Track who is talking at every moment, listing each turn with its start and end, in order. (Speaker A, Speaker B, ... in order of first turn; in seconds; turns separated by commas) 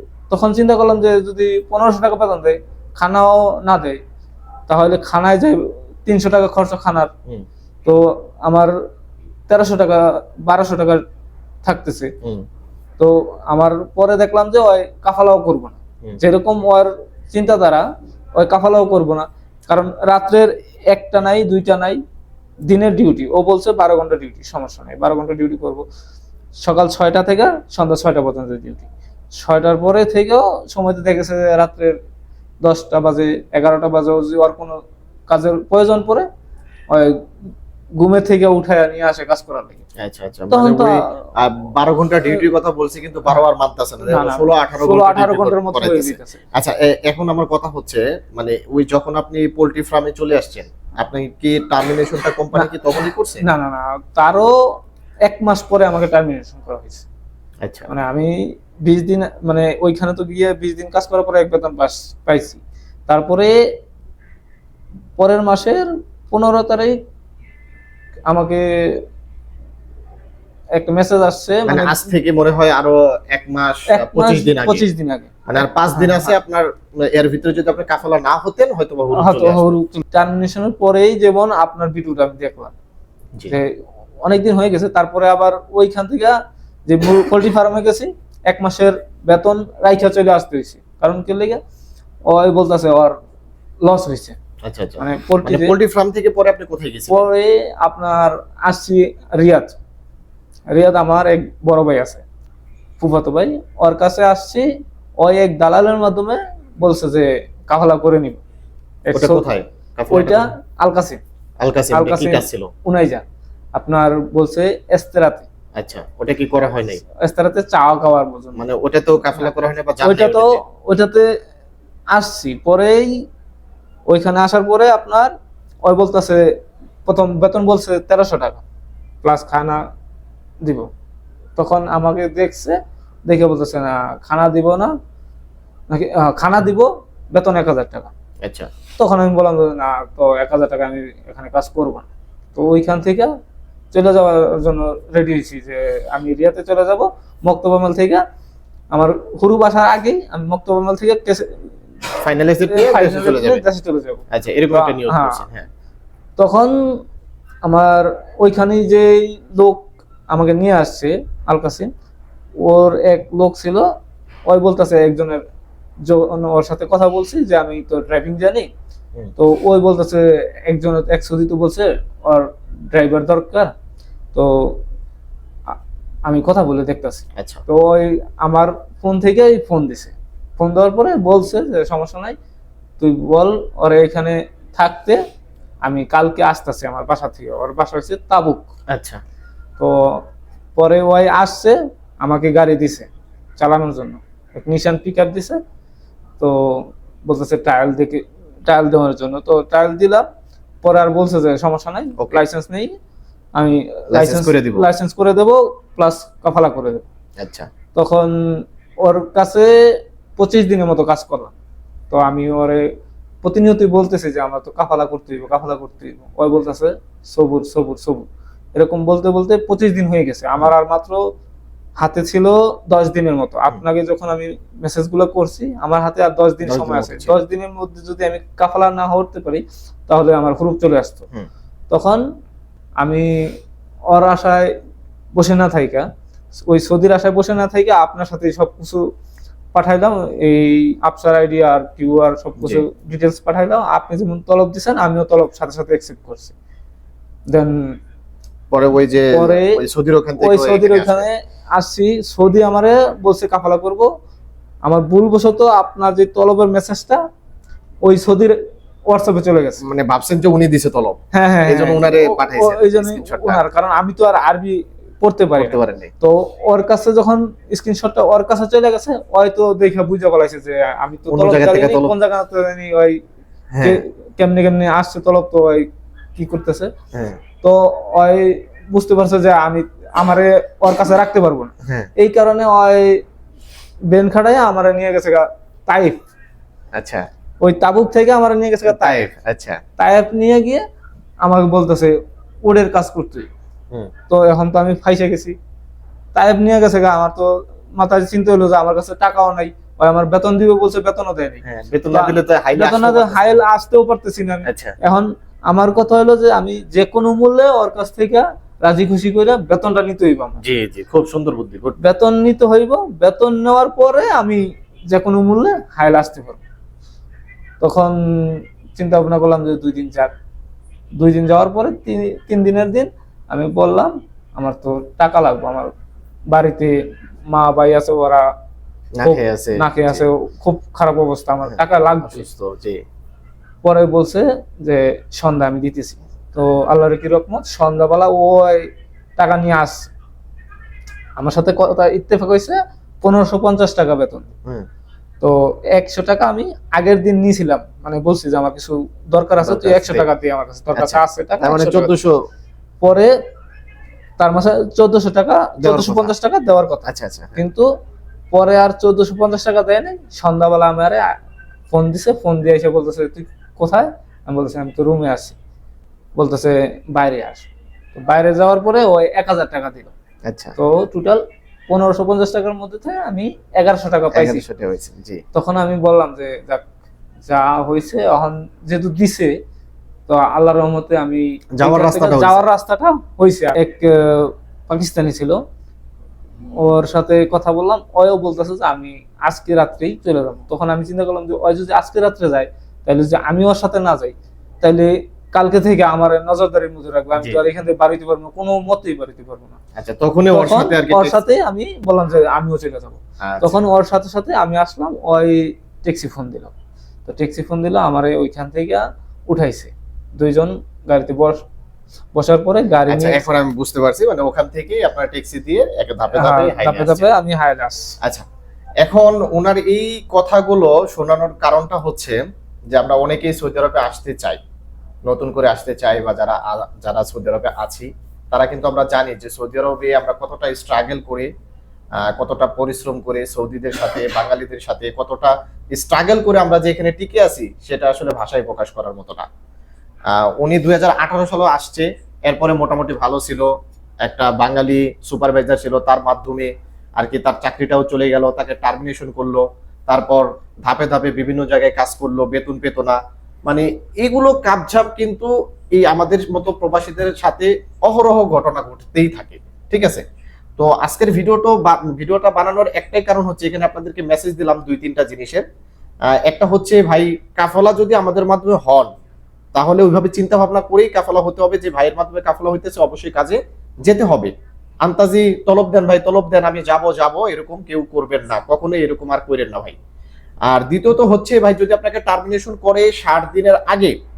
Speaker A: 0.3-4.0, Speaker A: 4.7-7.1, Speaker A: 7.8-8.7, Speaker A: 9.5-11.0, Speaker A: 11.6-12.1, Speaker A: 13.0-22.0, Speaker A: 22.7-25.8, Speaker A: 26.6-32.0, Speaker A: 32.6-36.3, Speaker A: 36.9-37.2, Speaker A: 38.0-39.8, Speaker B: 40.0-53.4, Speaker A: 40.5-41.2, Speaker A: 44.0-46.4, Speaker A: 53.4-54.5, Speaker A: 55.2-57.0, Speaker B: 57.6-57.9, Speaker A: 57.9-63.5, Speaker A: 65.2-67.0, Speaker A: 68.3-69.0, Speaker A: 70.7-72.0, Speaker B: 71.7-74.8, Speaker A: 73.9-76.3, Speaker B: 75.5-79.6, Speaker A: 79.1-82.7, Speaker A: 84.2-91.6, Speaker A: 92.3-93.2, Speaker A: 93.8-94.4, Speaker B: 94.6-97.3, Speaker A: 95.0-95.7, Speaker A: 97.1-99.8, Speaker A: 100.7-102.2, Speaker A: 103.0-104.7, Speaker A: 105.2-108.4, Speaker A: 109.1-109.5, Speaker B: 109.1-110.5, Speaker A: 110.1-111.2, Speaker B: 111.6-112.7, Speaker A: 111.9-113.2, Speaker A: 113.7-115.5, Speaker B: 115.8-117.0, Speaker A: 117.1-118.6, Speaker B: 118.5-120.6, Speaker A: 120.0-121.3, Speaker A: 122.1-123.2, Speaker A: 124.1-125.3, Speaker A: 125.8-126.5, Speaker A: 127.0-128.6, Speaker A: 129.2-129.8, Speaker A: 130.6-130.9, Speaker A: 131.6-134.9, Speaker A: 135.9-138.1, Speaker B: 138.4-138.7, Speaker A: 139.0-143.3, Speaker A: 143.9-148.2, Speaker A: 148.9-151.7, Speaker B: 152.2-153.6, Speaker A: 152.7-155.4, Speaker B: 154.3-155.7, Speaker A: 156.4-156.7, Speaker A: 157.7-161.9, Speaker A: 162.6-163.9, Speaker A: 164.5-165.4, Speaker A: 166.0-168.7, Speaker A: 169.4-173.7, Speaker A: 174.3-174.8, Speaker A: 175.7-182.3, Speaker B: 177.3-177.6, Speaker A: 183.0-185.2, Speaker A: 185.8-188.7, Speaker B: 188.9-189.2, Speaker A: 189.8-190.2, Speaker A: 190.8-195.6, Speaker A: 196.4-200.2, Speaker A: 200.8-202.9, Speaker A: 203.6-207.0, Speaker B: 204.1-204.9, Speaker B: 207.4-207.7, Speaker A: 207.9-211.5, Speaker A: 212.1-212.9, Speaker A: 213.4-221.2, Speaker A: 222.0-231.2, Speaker B: 226.6-227.4, Speaker A: 231.9-232.2, Speaker A: 233.0-233.6, Speaker A: 234.1-234.7, Speaker A: 235.3-239.1, Speaker A: 239.7-246.5, Speaker B: 242.6-242.8, Speaker A: 247.5-247.9, Speaker B: 248.7-251.3, Speaker A: 249.3-249.8, Speaker A: 250.4-254.1, Speaker A: 254.8-257.2, Speaker A: 258.0-258.6, Speaker A: 259.1-259.8, Speaker B: 259.8-263.6, Speaker A: 261.3-273.2, Speaker B: 265.6-266.1, Speaker B: 271.3-272.1, Speaker B: 273.7-274.0, Speaker A: 273.8-276.9, Speaker B: 277.1-277.4, Speaker A: 277.6-283.2, Speaker B: 281.8-282.1, Speaker A: 284.1-286.2, Speaker B: 286.9-287.2, Speaker A: 287.6-289.2, Speaker B: 288.9-289.8, Speaker A: 290.0-290.8, Speaker A: 291.4-293.5, Speaker A: 294.3-295.6, Speaker A: 296.3-310.6, Speaker B: 301.6-303.6, Speaker B: 304.6-304.9, Speaker B: 310.6-312.0, Speaker A: 312.0-316.6, Speaker A: 317.8-320.3, Speaker A: 321.1-325.9, Speaker A: 326.5-327.0, Speaker A: 327.5-328.5, Speaker B: 329.1-330.2, Speaker A: 329.2-332.4, Speaker B: 331.6-333.0, Speaker A: 333.8-340.1, Speaker A: 341.4-344.5, Speaker A: 345.4-352.1, Speaker B: 349.6-350.3, Speaker B: 350.9-352.4, Speaker A: 353.0-353.4, Speaker A: 354.4-357.9, Speaker B: 355.8-356.3, Speaker B: 357.1-357.6, Speaker A: 358.5-361.3, Speaker A: 361.9-365.5, Speaker A: 366.4-370.1, Speaker B: 370.5-370.8, Speaker A: 370.8-374.6, Speaker B: 374.3-375.4, Speaker A: 375.5-376.8, Speaker A: 377.4-379.5, Speaker A: 380.3-385.6, Speaker B: 381.8-382.6, Speaker A: 386.8-399.8, Speaker B: 397.4-397.6, Speaker B: 400.0-401.4, Speaker A: 400.5-406.7, Speaker B: 403.4-403.8, Speaker A: 407.3-411.6, Speaker A: 412.3-413.4, Speaker B: 413.1-417.3, Speaker A: 416.3-418.1, Speaker B: 419.0-422.4, Speaker B: 422.9-424.6, Speaker B: 425.3-431.5, Speaker B: 432.2-439.4, Speaker B: 440.3-443.7, Speaker B: 444.2-460.2, Speaker B: 460.8-465.6, Speaker B: 466.3-469.1, Speaker B: 469.7-474.5, Speaker B: 475.0-479.9, Speaker B: 480.7-484.1